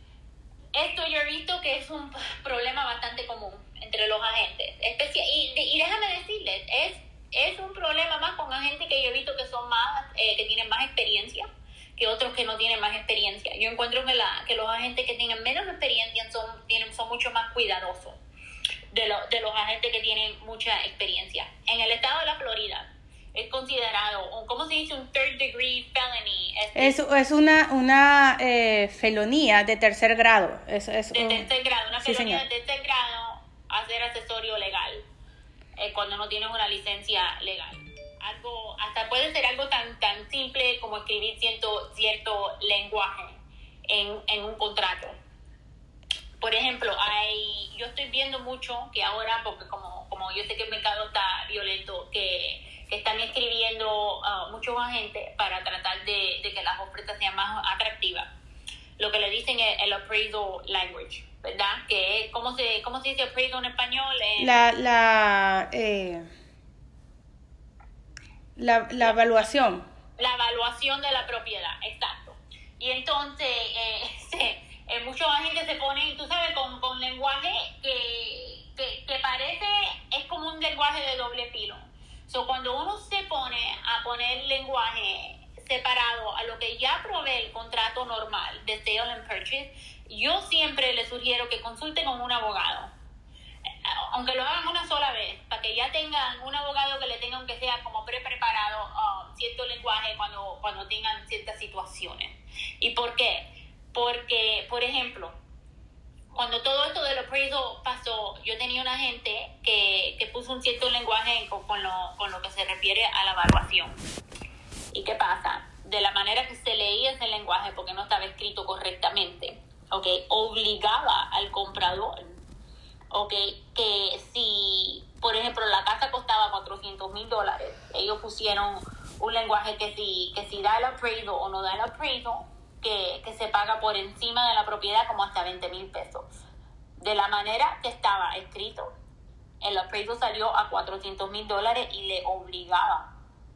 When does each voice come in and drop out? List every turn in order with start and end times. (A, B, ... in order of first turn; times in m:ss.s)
0:00.7-0:11.4 A
0:12.0-0:18.2 A
0:18.9-0:27.0 A
0:26.8-0:31.5 B
0:31.1-0:35.0 A
0:32.0-0:32.4 B
0:35.8-0:43.3 A
0:43.9-0:45.2 A
0:46.4-0:58.3 A
0:59.0-1:04.6 A
1:04.4-1:06.3 B
1:08.6-1:09.8 B
1:10.2-1:32.9 A
1:33.8-1:45.3 A
1:46.3-1:54.0 A
1:54.9-2:02.4 A
2:03.1-2:16.3 A
2:17.0-2:18.9 A
2:19.6-2:23.1 A